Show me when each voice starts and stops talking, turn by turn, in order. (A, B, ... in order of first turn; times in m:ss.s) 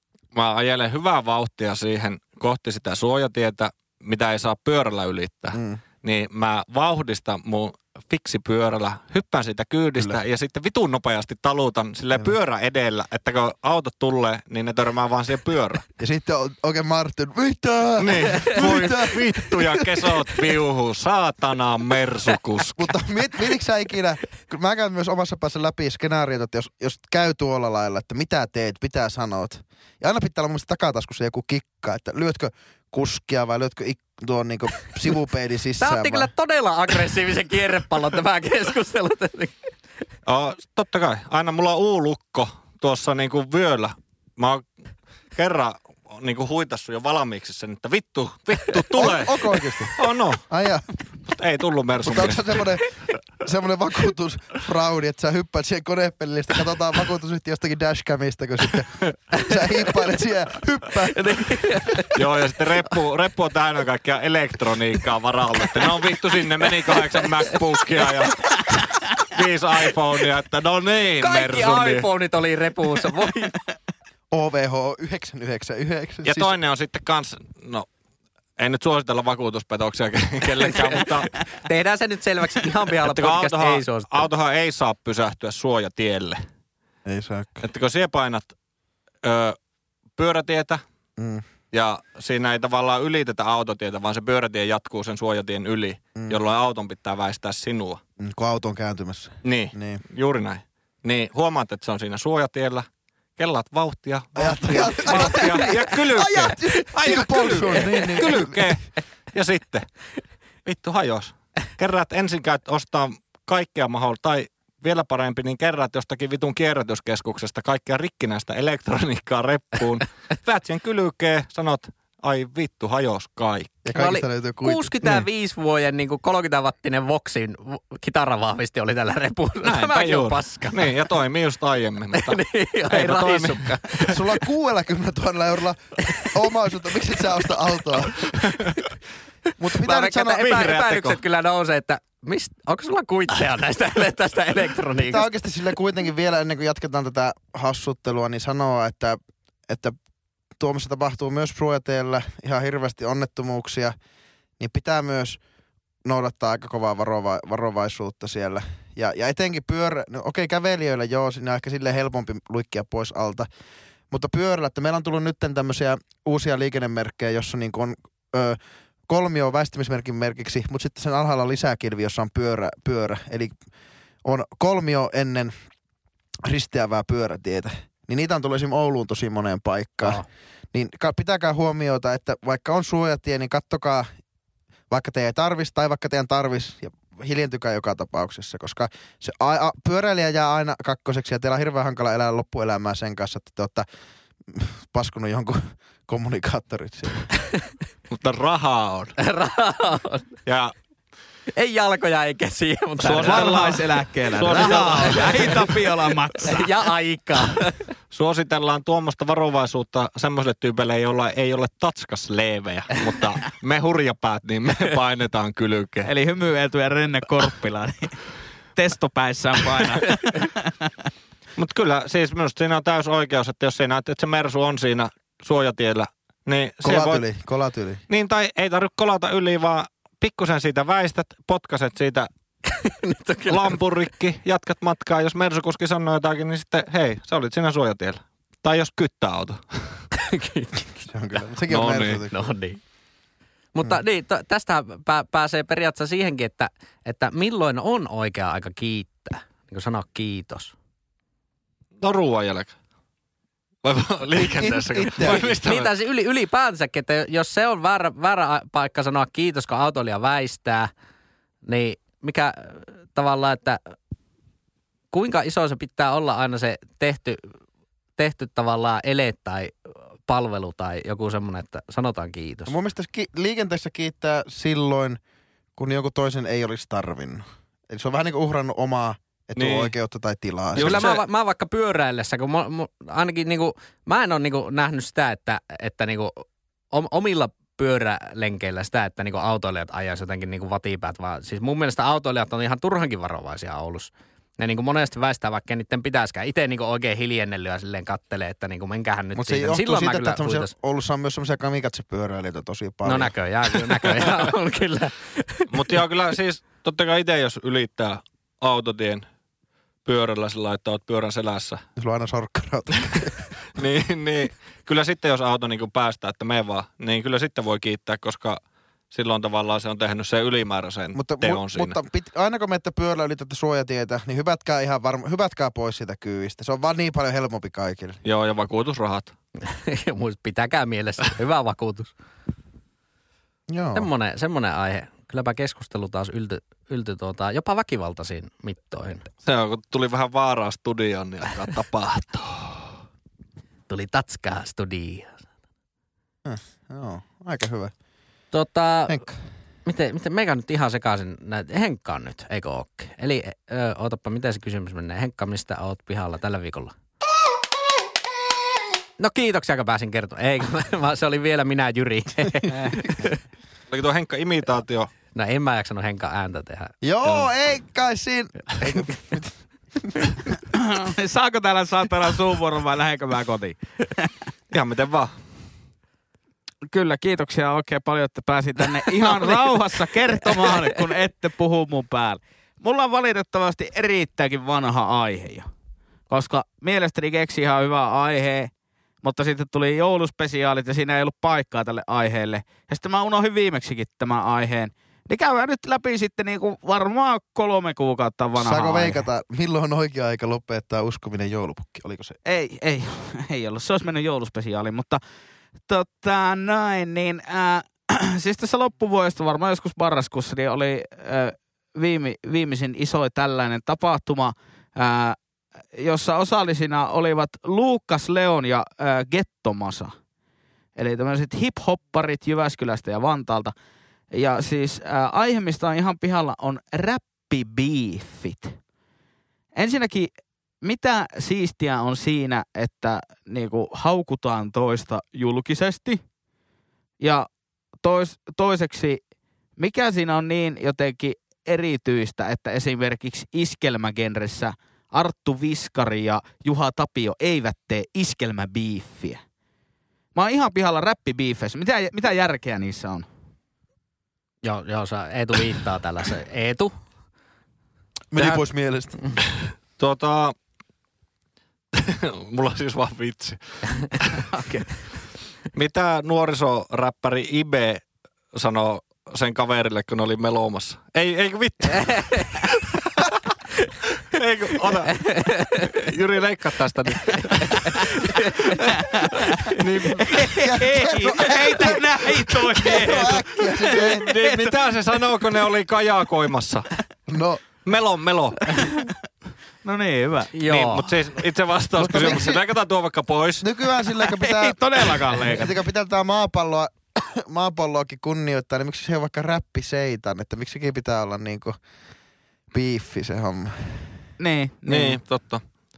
0:00.3-0:15.8 A
0:05.5-0:05.8 B
0:16.0-0:20.2 B
0:18.0-0:22.9 A
0:22.7-0:36.3 B
0:35.8-0:39.5 C
0:40.2-0:44.7 A
0:45.3-0:50.4 A
0:48.9-0:50.9 B
0:51.2-0:52.6 A
0:52.0-1:01.6 B
1:01.1-1:02.2 C
1:02.1-1:12.1 A
1:06.8-1:08.0 C
1:11.2-1:13.5 C
1:14.3-1:16.5 B
1:16.2-1:17.9 A
1:18.6-1:21.4 A
1:21.0-1:24.3 C
1:23.0-1:26.4 A
1:27.0-1:27.6 B
1:27.6-1:28.5 A
1:29.2-1:29.6 A
1:30.2-1:30.8 A
1:31.2-1:31.4 B
1:31.7-1:38.0 A
1:38.2-1:40.0 B
1:39.4-1:49.9 A
1:44.4-1:48.6 B
1:50.6-2:03.8 A
2:03.8-2:05.2 B
2:03.9-2:11.1 C
2:09.6-2:14.2 A
2:12.1-2:14.2 C
2:14.0-2:18.3 B
2:18.3-2:18.8 A
2:19.6-2:20.6 B
2:19.7-2:25.3 C
2:20.3-2:21.2 A
2:25.0-2:30.0 B
2:30.6-2:33.9 B
2:34.6-2:35.4 B
2:36.0-2:43.5 B
2:44.1-2:53.6 B
2:54.2-2:55.5 B
2:56.4-3:04.1 B
3:04.9-3:13.8 B
3:14.5-3:17.3 B
3:18.1-3:19.1 A
3:19.2-3:20.3 C
3:20.4-3:20.7 A
3:21.5-3:23.8 C
3:23.0-3:26.8 D
3:23.0-3:25.8 A
3:24.5-3:25.7 C
3:26.4-3:27.8 C
3:28.1-3:36.1 A
3:36.0-3:38.2 D
3:38.8-3:40.9 D
3:41.6-3:47.2 A
3:46.8-3:48.0 B
3:48.1-3:52.3 A
3:52.6-3:53.8 C
3:53.5-4:00.0 A
4:00.1-4:00.9 C
4:01.0-4:02.3 B
4:01.7-4:02.2 A
4:02.2-4:02.8 C
4:03.7-4:10.7 C
4:12.0-4:12.7 A
4:13.8-4:15.9 A
4:14.6-4:15.5 B
4:15.2-4:20.9 C
4:21.6-4:23.9 C
4:25.1-4:27.5 C
4:28.2-4:32.7 C
4:32.7-4:35.2 B
4:35.8-4:41.0 B
4:39.6-4:39.9 A
4:40.7-5:00.7 C
4:40.8-4:41.2 A
4:59.3-5:03.3 B
5:03.0-5:06.0 C
5:05.7-5:09.2 A
5:10.0-5:11.8 A
5:12.0-5:13.4 B
5:13.1-5:18.6 A
5:19.1-5:21.9 A
5:21.1-5:28.2 B
5:28.2-5:29.3 A
5:29.6-5:32.1 C
5:33.7-5:34.1 B
5:33.9-5:39.3 C
5:39.4-5:42.9 A
5:43.9-5:45.4 C
5:46.4-5:47.9 B
5:48.5-5:49.2 C
5:49.1-5:49.3 B
5:49.8-5:56.9 C
5:59.2-6:03.4 C
6:02.7-6:03.0 D
6:03.9-6:05.1 A
6:05.3-6:07.3 C
6:07.0-6:10.4 B
6:10.7-6:14.3 D
6:14.7-6:15.4 A
6:16.9-6:25.6 D
6:26.3-6:28.7 D
6:29.2-6:39.2 D
6:38.6-6:42.4 B
6:42.4-6:45.2 D
6:45.9-6:55.4 D
6:55.9-7:00.1 D
7:01.0-7:03.7 D
7:04.3-7:08.8 D
7:09.7-7:10.3 D
7:10.8-7:16.2 D
7:17.2-7:17.5 D
7:18.0-7:19.2 D
7:19.8-7:29.4 D
7:30.3-7:33.2 D
7:34.6-7:36.9 C
7:38.3-7:39.2 B
7:40.0-7:40.5 A
7:41.9-7:44.5 A
7:44.5-7:44.9 D
7:45.7-7:53.4 A
7:52.1-7:52.6 C
7:54.2-8:00.7 A
7:55.1-7:56.0 C
7:57.5-7:58.9 C
7:59.0-8:04.8 D
8:00.6-8:04.3 B
8:02.8-8:03.3 A
8:03.8-8:06.9 A
8:07.3-8:07.6 B
8:07.8-8:08.9 A
8:08.7-8:09.1 D
8:09.8-8:10.5 D
8:10.5-8:11.1 C
8:10.6-8:13.6 A
8:12.0-8:12.6 B
8:13.6-8:21.8 B
8:14.0-8:15.8 D
8:22.7-8:24.2 B
8:24.4-8:25.2 D
8:24.9-8:25.6 A